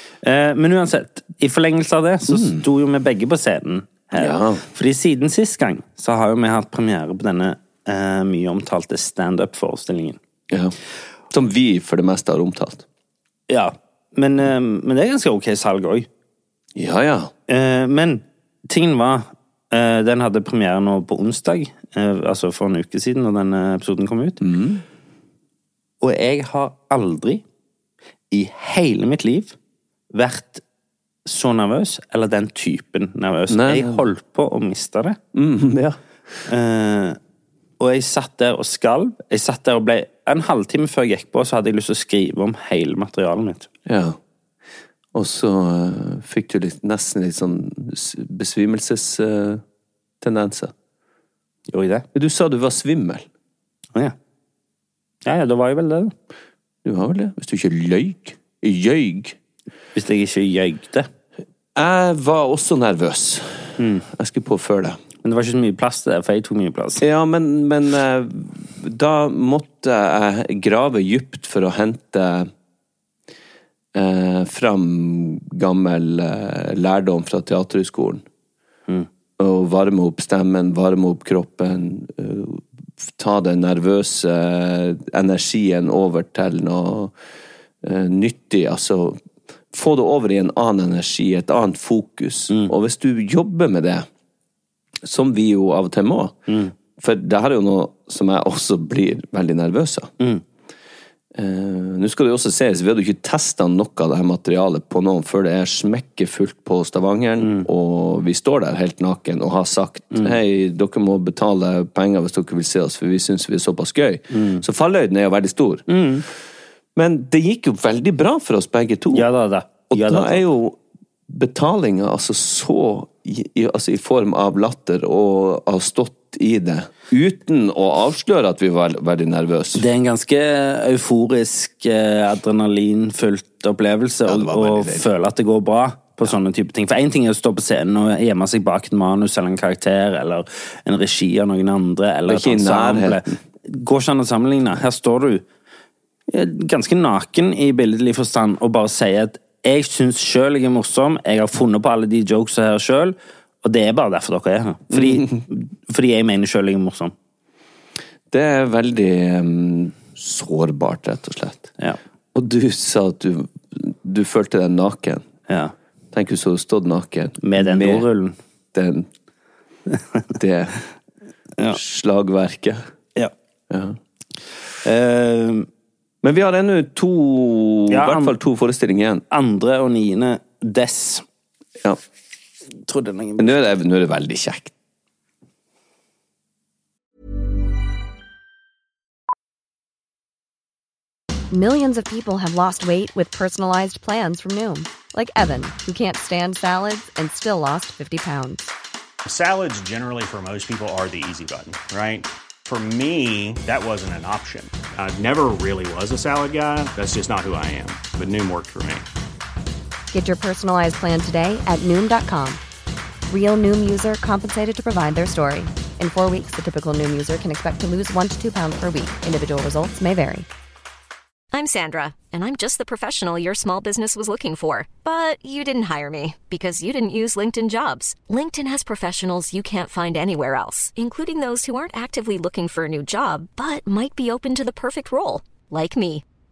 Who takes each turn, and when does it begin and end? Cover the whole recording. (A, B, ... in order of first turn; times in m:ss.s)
0:00.2-0:10.2 A
0:02.3-0:02.6 B
0:04.1-0:04.6 B
0:10.5-0:10.7 B
0:11.3-0:12.8 B
0:13.5-0:16.1 A
0:16.7-0:17.3 B
0:17.5-0:24.4 A
0:24.4-0:24.8 B
0:26.0-0:27.4 A
0:28.3-0:29.5 A
0:30.1-0:30.6 A
0:31.2-0:35.2 A
0:33.5-0:34.0 B
0:35.3-0:36.0 B
0:36.5-0:37.2 A
0:37.8-0:43.7 A
0:43.8-0:44.2 B
0:45.1-0:49.6 B
0:50.2-0:50.7 B
0:51.7-0:52.0 A
0:52.1-0:53.3 B
0:55.2-0:56.1 A
0:56.8-0:59.4 B
0:59.9-1:01.1 A
1:01.7-1:05.0 B
1:03.8-1:04.0 A
1:05.2-1:07.0 A
1:07.0-1:12.5 B
1:13.9-1:18.2 B
1:19.4-1:27.1 B
1:27.8-1:29.2 B
1:29.7-1:34.1 B
1:35.0-1:36.4 B
1:36.5-1:36.7 A
1:37.0-1:40.1 B
1:41.3-1:55.9 B
1:47.4-1:47.7 A
1:54.3-1:54.6 A
1:55.9-1:56.2 A
1:57.0-1:59.3 B
1:59.1-2:00.4 A
1:59.9-2:00.8 B
2:01.3-2:09.8 B
2:09.7-2:25.4 A
2:14.2-2:15.1 B
2:22.3-2:23.4 B
2:26.3-2:37.1 A
2:34.9-2:35.4 B
2:38.3-2:41.7 B
2:42.3-2:45.2 B
2:45.5-2:45.7 A
2:46.1-2:48.1 B
2:47.4-2:48.3 A
2:48.7-2:49.1 B
2:49.9-2:50.2 A
2:50.3-2:50.8 B
2:51.7-2:52.8 B
2:53.7-2:54.0 B
2:54.8-2:55.7 A
2:56.2-2:59.2 B
2:57.9-2:58.3 A
2:59.3-3:01.2 A
3:02.8-3:03.5 A
3:03.4-3:04.7 B
3:11.5-3:18.7 C
3:19.2-3:29.0 D
3:30.1-3:32.6 C
3:33.3-3:40.4 C
3:41.5-3:56.2 E